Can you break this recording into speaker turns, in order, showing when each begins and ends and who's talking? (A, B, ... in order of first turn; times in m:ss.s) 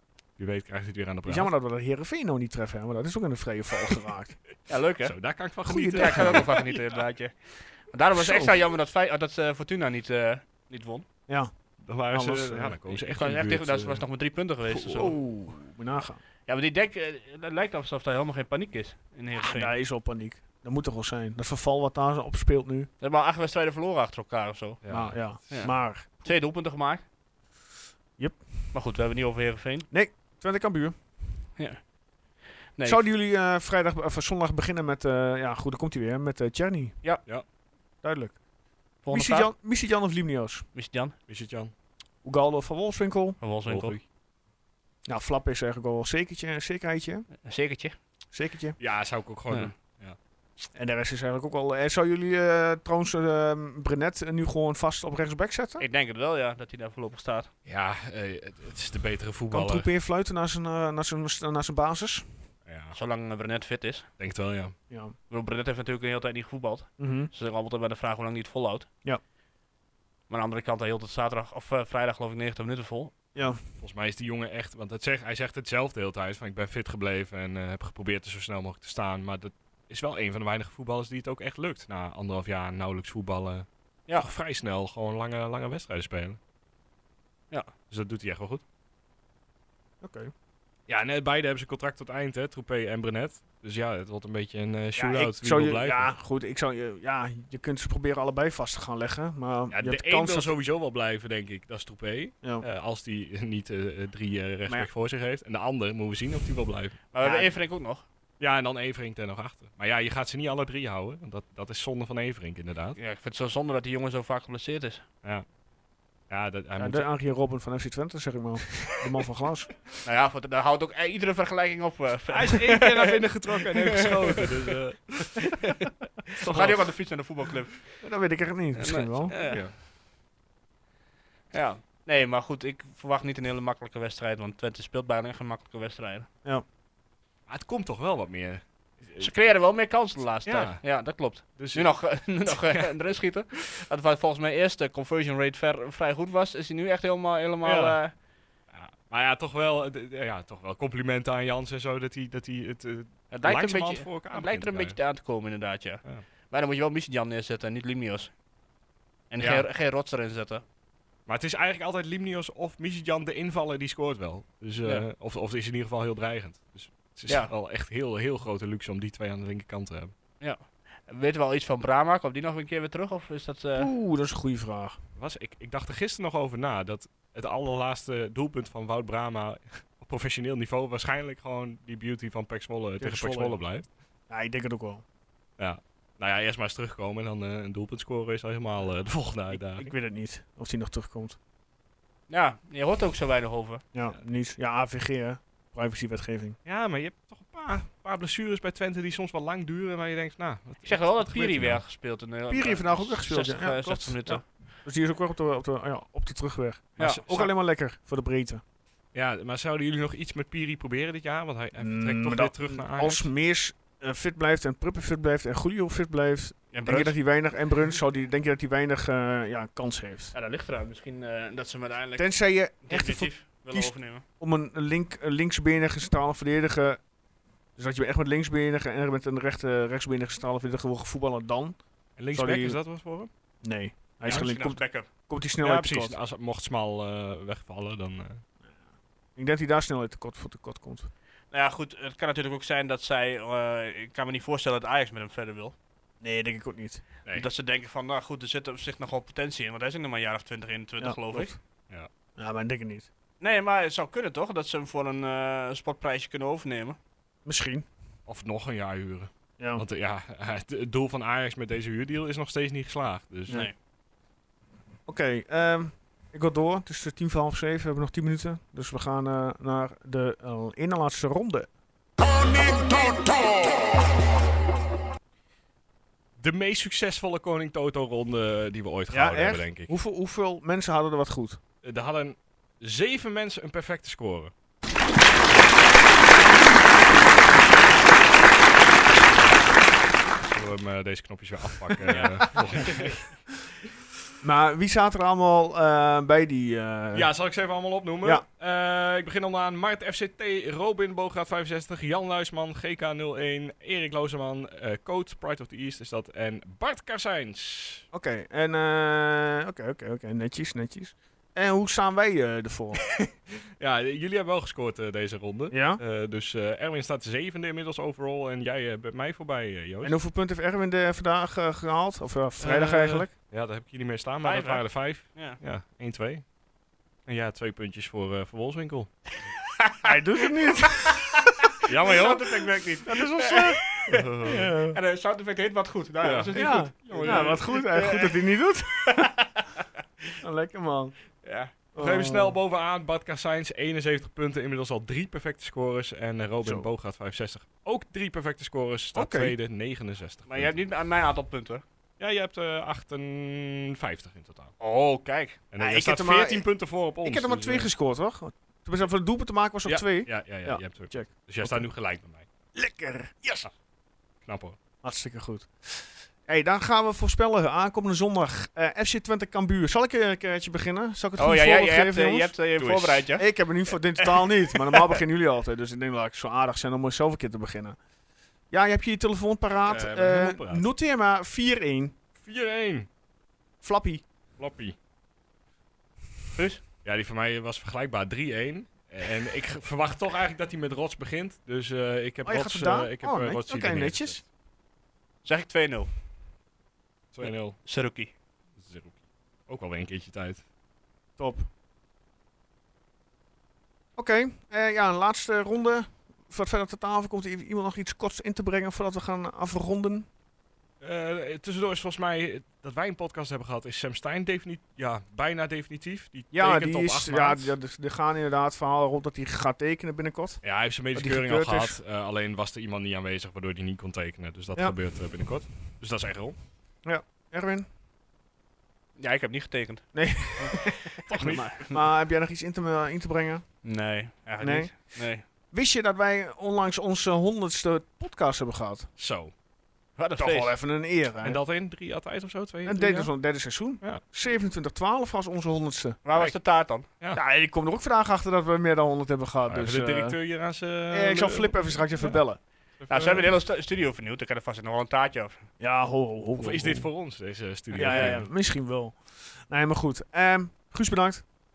0:00.4-0:01.5 A
0:01.2-0:04.4 B
0:04.7-0:05.1 C
0:05.0-0:06.7 A
0:05.6-0:06.5 B
0:06.0-0:11.1 C
0:08.2-0:08.5 B
0:11.8-0:14.0 A
0:12.1-0:12.8 B
0:12.9-0:15.1 C
0:14.9-0:16.2 B
0:16.5-0:19.7 C
0:19.4-0:22.9 B
0:23.0-0:24.8 C
0:24.8-0:25.6 A
0:24.9-0:26.2 B
0:25.5-0:27.0 C
0:28.2-0:28.7 B
0:28.7-0:29.9 C
0:29.9-0:31.0 B
0:31.6-0:31.8 C
0:32.8-0:33.1 C
0:32.8-0:37.0 B
0:38.0-0:38.4 B
0:39.0-0:39.5 C
0:39.1-0:40.7 B
0:40.7-0:41.1 C
0:41.3-0:41.7 A
0:42.2-0:43.4 B
0:43.4-0:44.0 C
0:43.6-0:44.0 A
0:45.1-0:47.3 B
0:47.4-0:48.0 C
0:48.3-0:48.8 B
0:48.8-0:50.2 A
0:50.7-0:55.8 B
0:55.8-0:57.5 C
0:57.6-0:59.9 A
0:59.5-1:02.4 B
1:02.7-1:03.0 A
1:02.9-1:04.1 C
1:04.2-1:04.8 A
1:04.9-1:05.1 B
1:05.3-1:08.9 C
1:07.0-1:07.3 B
1:10.3-1:13.1 C
1:13.4-1:13.6 B
1:13.8-1:26.4 A
1:27.9-1:28.6 A
1:30.0-1:30.3 B
1:30.9-1:36.1 A
1:35.0-1:40.5 B
1:39.7-1:47.0 A
1:47.1-1:48.0 C
1:47.2-1:47.5 B
1:48.4-1:53.0 A
1:53.0-1:55.0 C
1:56.3-1:57.1 A
1:56.8-1:59.7 B
2:00.0-2:04.7 C
2:02.3-2:05.6 A
2:06.3-2:06.8 A
2:06.3-2:07.9 C
2:08.0-2:09.4 B
2:08.8-2:09.6 C
2:09.4-2:09.8 A
2:11.5-2:16.3 C
2:17.5-2:19.3 A
2:19.2-2:28.1 C
2:20.5-2:20.8 A
2:21.4-2:22.9 A
2:27.6-2:28.0 A
2:28.7-2:35.0 A
2:33.3-2:38.3 C
2:39.3-2:40.6 C
2:39.4-2:39.6 A
2:41.3-2:50.1 A
2:50.4-2:53.9 C
2:53.8-2:55.0 B
2:55.2-3:03.8 A
3:03.0-3:03.6 B
3:04.3-3:05.0 B
3:05.6-3:09.9 A
3:09.5-3:11.4 B
3:12.3-3:13.8 C
3:13.9-3:16.6 B
3:16.6-3:21.8 A
3:20.8-3:24.4 C
3:22.5-3:28.6 B
3:27.0-3:27.4 A
3:27.0-3:27.5 C
3:29.1-3:33.3 A
3:31.8-3:40.3 B
3:36.7-3:37.2 C
3:40.3-3:44.2 C
3:42.2-3:47.0 B
3:47.8-3:51.8 B
3:52.2-3:53.3 A
3:52.3-3:52.8 B
3:53.6-3:56.2 B
3:54.3-3:55.1 C
3:55.6-3:58.4 A
3:59.4-4:01.1 B
4:01.5-4:05.8 C
4:06.2-4:07.0 B
4:07.3-4:11.5 C
4:11.0-4:11.6 B
4:12.4-4:13.1 B
4:13.4-4:17.0 C
4:17.4-4:17.9 B
4:18.3-4:23.7 A
4:25.1-4:31.7 B
4:36.4-4:39.9 A
4:39.1-4:41.6 B
4:41.8-4:44.5 A
4:50.4-4:53.3 A
4:52.1-4:53.1 C
4:54.4-4:57.3 B
4:57.1-5:08.0 A
5:08.1-5:13.0 B
5:13.0-5:20.2 A
5:15.7-5:16.0 B
5:20.0-5:23.3 B
5:22.6-5:26.4 A
5:24.4-5:25.6 C
5:27.3-5:29.1 A
5:29.8-5:30.1 C
5:30.0-5:31.7 B
5:31.9-5:32.4 A
5:31.9-5:38.4 C
5:33.1-5:35.0 B
5:34.1-5:34.7 A
5:36.2-5:37.6 A
5:36.5-5:39.3 B
5:39.1-5:40.3 C
5:40.4-5:41.1 B
5:41.4-5:41.7 C
5:41.9-5:42.6 B
5:42.0-5:50.8 A
5:46.6-5:46.9 B
5:49.1-5:49.5 B
5:50.5-5:51.8 C
5:52.2-5:54.7 A
5:54.8-5:55.6 C
5:55.7-5:57.9 A
5:55.8-5:56.7 B
5:57.2-6:01.9 B
5:59.8-6:02.5 A
6:02.8-6:03.7 B
6:04.5-6:04.8 A
6:05.0-6:18.0 B
6:11.4-6:15.2 C
6:18.7-6:22.2 B
6:19.9-6:20.9 A
6:22.4-6:23.1 A
6:23.8-6:24.2 B
6:24.6-6:25.0 A
6:26.6-6:26.8 C
6:27.0-6:34.4 A
6:32.4-6:34.4 B
6:35.4-6:36.1 C
6:37.3-6:37.8 A
6:37.4-6:38.3 C
6:38.8-6:40.6 A
6:41.4-6:41.7 B
6:44.2-6:50.3 B
6:51.0-6:57.8 A
6:56.5-7:02.0 B
7:00.6-7:06.6 A
7:07.0-7:07.9 B
7:09.2-7:12.0 C
7:10.1-7:13.6 B
7:11.3-7:11.7 A
7:13.8-7:15.4 C
7:14.6-7:15.1 B
7:15.7-7:19.1 B
7:19.2-7:19.5 A
7:20.2-7:20.8 C
7:20.4-7:21.6 B
7:21.4-7:23.3 A
7:22.8-7:26.2 B
7:26.2-7:27.1 C
7:27.3-7:30.4 B
7:29.7-7:32.4 A
7:31.1-7:32.6 B
7:33.0-7:33.5 A
7:33.1-7:35.7 C
7:35.8-7:37.1 B
7:36.6-7:38.5 A
7:37.9-7:41.5 B
7:38.0-7:38.4 C